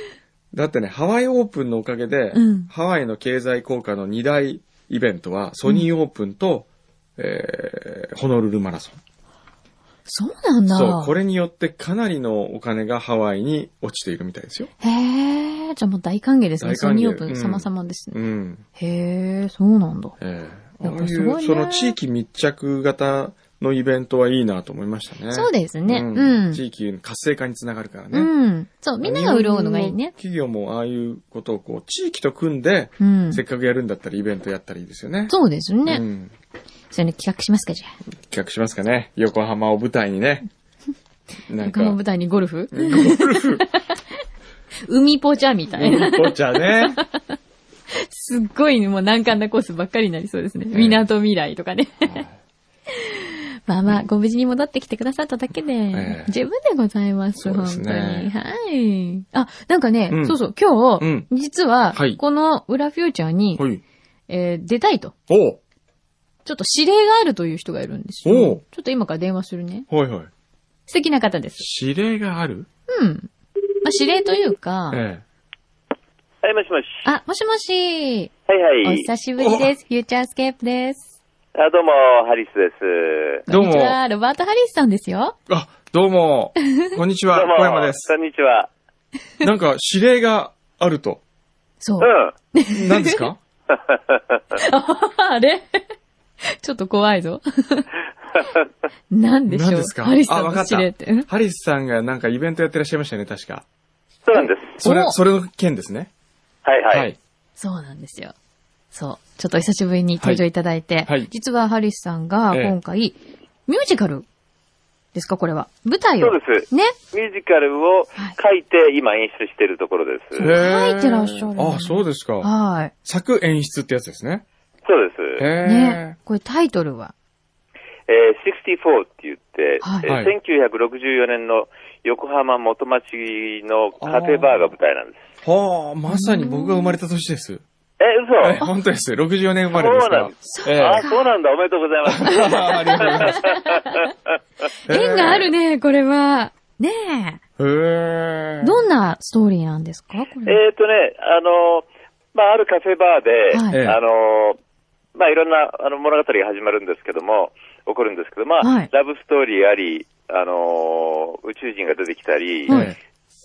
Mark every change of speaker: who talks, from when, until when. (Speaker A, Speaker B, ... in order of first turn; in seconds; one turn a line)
Speaker A: 0.5-9.0
Speaker B: 2.3-2.7
Speaker B: 10.1-11.1
Speaker A: 10.7-14.7
Speaker B: 14.8-18.2
Speaker A: 16.6-18.6
Speaker B: 18.8-20.2
Speaker A: 20.2-28.3
Speaker B: 20.8-21.9
Speaker B: 25.3-26.6
Speaker B: 28.1-30.1
Speaker A: 29.0-35.3
Speaker B: 33.0-33.4
Speaker B: 35.3-36.0
Speaker A: 35.9-36.3
Speaker B: 36.9-37.9
Speaker A: 38.2-40.5
Speaker A: 41.5-42.0
Speaker B: 41.6-44.0
Speaker A: 42.7-43.6
Speaker B: 44.9-47.3
Speaker A: 45.8-47.0
Speaker B: 48.0-52.2
Speaker A: 50.7-51.0
Speaker A: 52.0-52.4
Speaker B: 52.9-63.6
Speaker A: 55.9-56.3
Speaker A: 57.4-58.3
Speaker A: 60.1-60.4
Speaker A: 61.0-61.3
Speaker A: 61.9-62.2
Speaker A: 63.6-63.8
Speaker B: 64.3-65.1
Speaker A: 65.3-65.6
Speaker B: 66.4-69.9
Speaker A: 68.2-68.6
Speaker A: 69.9-70.3
Speaker B: 70.9-71.7
Speaker A: 71.6-72.7
Speaker B: 72.9-73.3
Speaker B: 73.8-75.0
Speaker A: 74.9-75.2
Speaker C: 76.4-77.0
Speaker B: 77.0-78.3
Speaker C: 78.5-79.1
Speaker B: 78.8-81.1
Speaker A: 79.4-79.7
Speaker C: 81.5-83.4
Speaker B: 83.5-85.3
Speaker A: 83.5-84.0
Speaker A: 85.5-88.1
Speaker C: 87.3-88.7
Speaker A: 89.4-91.2
Speaker B: 91.8-93.3
Speaker C: 92.0-92.3
Speaker A: 92.7-93.4
Speaker C: 93.7-94.4
Speaker B: 94.5-95.8
Speaker B: 96.5-97.9
Speaker B: 99.1-101.3
Speaker A: 99.5-103.6
Speaker C: 104.2-104.8
Speaker A: 104.8-106.1
Speaker B: 104.8-105.2
Speaker C: 106.6-107.1
Speaker A: 106.9-107.2
Speaker B: 107.6-108.3
Speaker B: 108.9-113.2
Speaker A: 112.5-112.8
Speaker B: 113.7-114.2
Speaker B: 115.1-116.9
Speaker C: 116.2-120.5
Speaker A: 120.3-122.5
Speaker B: 120.4-122.9
Speaker A: 123.0-124.4
Speaker C: 124.8-125.4
Speaker A: 125.4-126.2
Speaker B: 125.6-127.1
Speaker C: 128.1-135.2
Speaker B: 129.8-130.1
Speaker A: 130.1-130.3
Speaker A: 134.0-134.7
Speaker A: 135.4-137.6
Speaker B: 136.1-137.0
Speaker C: 138.0-138.6
Speaker A: 138.4-141.0
Speaker C: 139.7-144.0
Speaker B: 140.5-141.2
Speaker A: 142.0-143.4
Speaker B: 142.3-144.1
Speaker A: 144.9-145.5
Speaker B: 144.9-147.4
Speaker A: 147.6-148.8
Speaker B: 148.6-150.6
Speaker C: 150.4-154.6
Speaker B: 153.5-153.8
Speaker A: 153.7-154.0
Speaker C: 155.1-162.9
Speaker B: 158.6-158.9
Speaker A: 162.7-162.9